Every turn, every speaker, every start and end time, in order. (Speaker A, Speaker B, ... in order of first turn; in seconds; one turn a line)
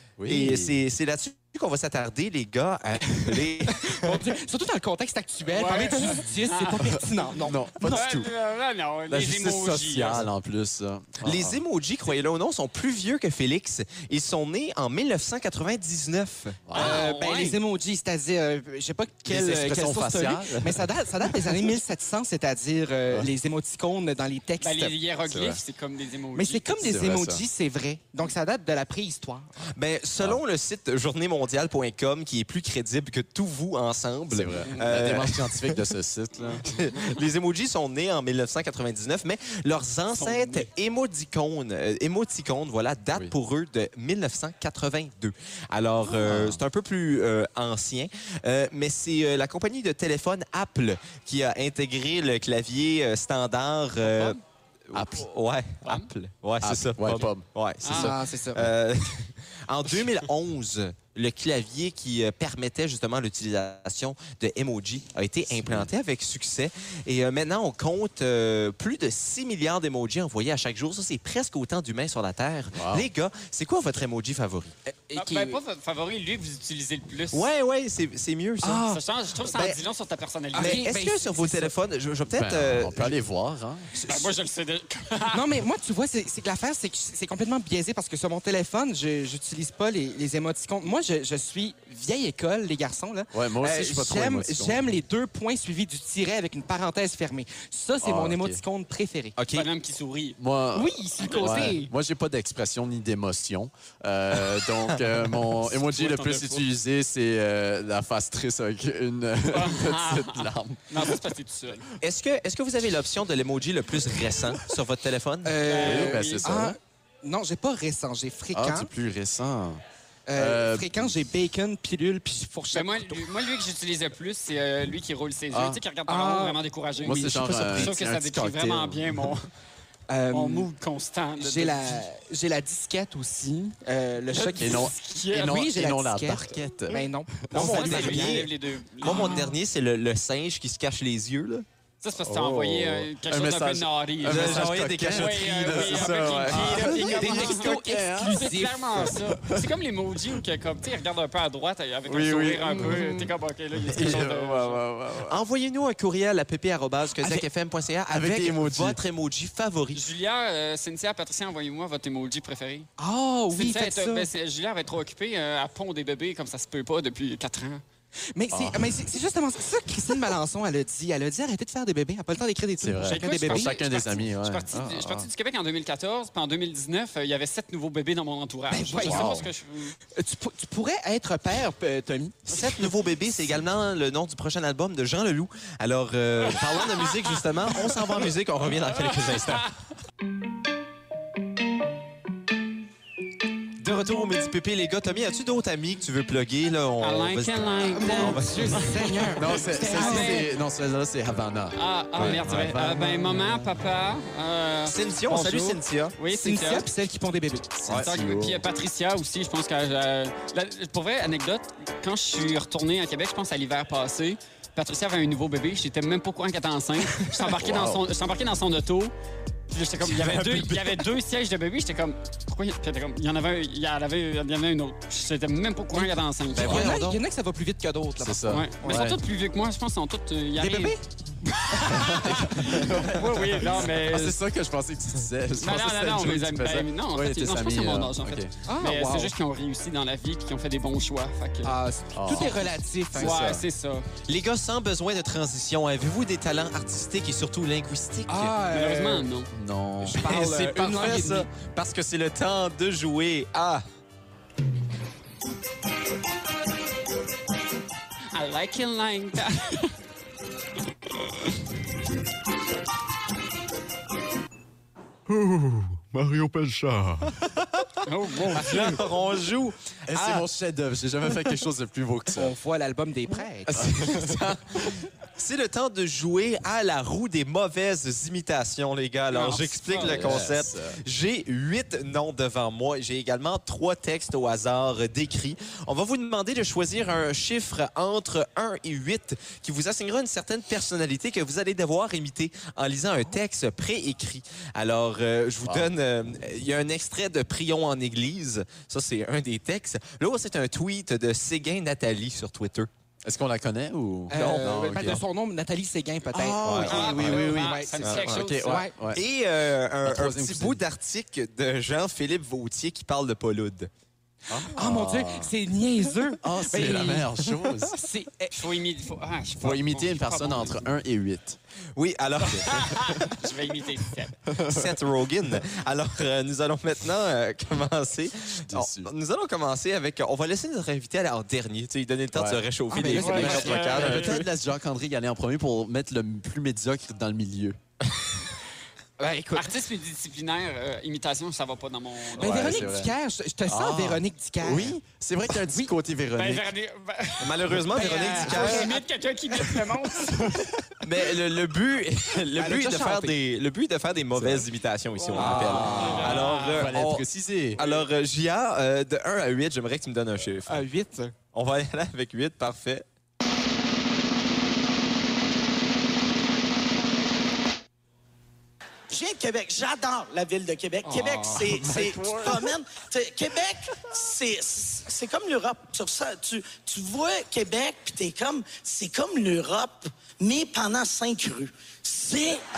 Speaker A: 0.2-0.8
Speaker B: 0.2-4.2
Speaker C: 3.9-8.1
Speaker D: 5.5-6.9
Speaker A: 6.8-8.3
Speaker D: 7.9-10.2
Speaker A: 9.1-11.6
Speaker B: 11.2-16.6
Speaker A: 16.6-17.0
Speaker D: 16.7-17.6
Speaker C: 16.7-25.0
Speaker A: 19.2-21.4
Speaker D: 24.6-26.9
Speaker A: 25.3-25.6
Speaker C: 26.3-29.5
Speaker A: 26.8-27.4
Speaker B: 29.7-35.8
Speaker A: 34.3-36.6
Speaker B: 36.6-74.9
Speaker D: 40.2-40.7
Speaker A: 46.2-46.6
Speaker A: 54.9-55.2
Speaker A: 56.6-58.1
Speaker D: 57.8-58.1
Speaker C: 57.9-58.7
Speaker A: 65.5-65.9
Speaker A: 72.7-73.1
Speaker C: 75.1-75.6
Speaker D: 75.1-77.5
Speaker B: 77.3-79.0
Speaker C: 78.6-79.0
Speaker D: 78.8-80.8
Speaker B: 79.5-79.8
Speaker B: 80.5-83.2
Speaker C: 80.5-81.7
Speaker A: 82.3-83.9
Speaker B: 83.9-84.3
Speaker D: 84.0-85.4
Speaker C: 85.3-99.3
Speaker A: 93.3-95.0
Speaker A: 98.0-98.6
Speaker B: 99.4-99.7
Speaker D: 99.5-100.4
Speaker A: 100.4-111.2
Speaker C: 100.7-101.9
Speaker D: 101.2-101.7
Speaker B: 104.9-105.6
Speaker D: 105.8-106.7
Speaker D: 109.5-111.9
Speaker B: 112.0-115.6
Speaker C: 115.4-118.9
Speaker D: 115.6-116.6
Speaker A: 115.8-116.8
Speaker A: 118.5-119.8
Speaker C: 120.3-123.2
Speaker A: 120.3-121.1
Speaker D: 122.7-129.4
Speaker A: 125.5-125.8
Speaker C: 126.1-127.9
Speaker A: 127.0-129.3
Speaker C: 130.1-130.7
Speaker D: 130.3-132.1
Speaker C: 131.4-138.5
Speaker D: 134.3-135.5
Speaker A: 134.6-137.1
Speaker D: 137.5-139.4
Speaker B: 137.5-141.6
Speaker C: 139.0-139.4
Speaker D: 142.0-154.8
Speaker A: 142.2-148.5
Speaker B: 144.2-146.6
Speaker C: 146.5-149.1
Speaker A: 149.1-149.6
Speaker A: 152.1-153.3
Speaker A: 153.9-155.3
Speaker B: 155.2-160.0
Speaker A: 158.1-159.0
Speaker D: 159.9-162.9
Speaker C: 163.0-164.3
Speaker D: 163.5-167.8
Speaker C: 168.3-173.8
Speaker A: 168.5-169.0
Speaker A: 172.8-175.3
Speaker D: 173.0-179.9
Speaker C: 178.7-179.5
Speaker A: 179.0-179.4
Speaker C: 180.1-182.7
Speaker B: 182.5-189.7
Speaker D: 186.4-187.4
Speaker D: 188.8-189.7
Speaker B: 193.8-199.3
Speaker D: 197.0-199.2
Speaker C: 198.0-200.4
Speaker A: 199.4-203.7
Speaker D: 199.9-200.5
Speaker D: 201.8-206.9
Speaker B: 204.8-206.2
Speaker C: 205.3-205.7
Speaker C: 206.3-208.1
Speaker A: 207.8-208.6
Speaker D: 208.0-219.1
Speaker A: 217.6-218.0
Speaker D: 219.7-227.0
Speaker B: 220.1-221.1
Speaker C: 225.9-229.0
Speaker A: 226.6-227.2
Speaker A: 228.2-229.2
Speaker D: 228.5-231.0
Speaker C: 230.6-231.0
Speaker D: 231.6-234.4
Speaker A: 231.9-238.5
Speaker D: 235.6-241.7
Speaker C: 238.7-239.3
Speaker C: 241.6-243.4
Speaker A: 242.1-243.6
Speaker D: 242.3-244.1
Speaker B: 244.3-248.6
Speaker C: 248.3-249.3
Speaker D: 248.7-249.5
Speaker A: 249.5-250.3
Speaker C: 250.0-251.5
Speaker B: 250.2-253.8
Speaker D: 258.3-259.9
Speaker A: 265.3-267.5
Speaker D: 268.0-269.0
Speaker B: 268.5-270.4
Speaker A: 270.1-272.5
Speaker C: 272.3-274.3
Speaker B: 273.7-302.9
Speaker A: 273.7-274.9
Speaker D: 279.3-280.3
Speaker A: 279.9-281.0
Speaker A: 303.2-305.2
Speaker C: 304.3-308.9
Speaker B: 304.6-304.9
Speaker A: 306.3-309.2
Speaker D: 306.8-308.8
Speaker B: 308.0-308.5
Speaker B: 309.1-313.9
Speaker A: 310.0-310.8
Speaker A: 314.5-315.5
Speaker C: 314.7-318.6
Speaker A: 316.4-317.9
Speaker D: 318.5-320.8
Speaker A: 319.6-321.6
Speaker B: 321.9-323.3
Speaker D: 322.4-324.4
Speaker A: 324.5-325.0
Speaker B: 324.6-334.5
Speaker A: 328.7-329.1
Speaker A: 332.3-337.8
Speaker C: 332.9-333.9
Speaker D: 333.2-334.3
Speaker C: 339.2-339.7
Speaker D: 339.5-342.9
Speaker C: 342.3-345.0
Speaker A: 342.4-343.1
Speaker A: 343.7-346.7
Speaker C: 345.6-345.9
Speaker D: 346.4-350.6
Speaker B: 347.4-348.9
Speaker C: 347.9-349.0
Speaker B: 351.0-360.9
Speaker C: 352.6-353.3
Speaker A: 354.3-354.7
Speaker D: 355.1-357.0
Speaker C: 355.4-356.4
Speaker A: 355.4-357.8
Speaker D: 357.8-358.1
Speaker C: 360.7-361.3
Speaker B: 361.5-363.0
Speaker E: 369.1-382.7
Speaker C: 371.0-371.6
Speaker A: 371.5-372.7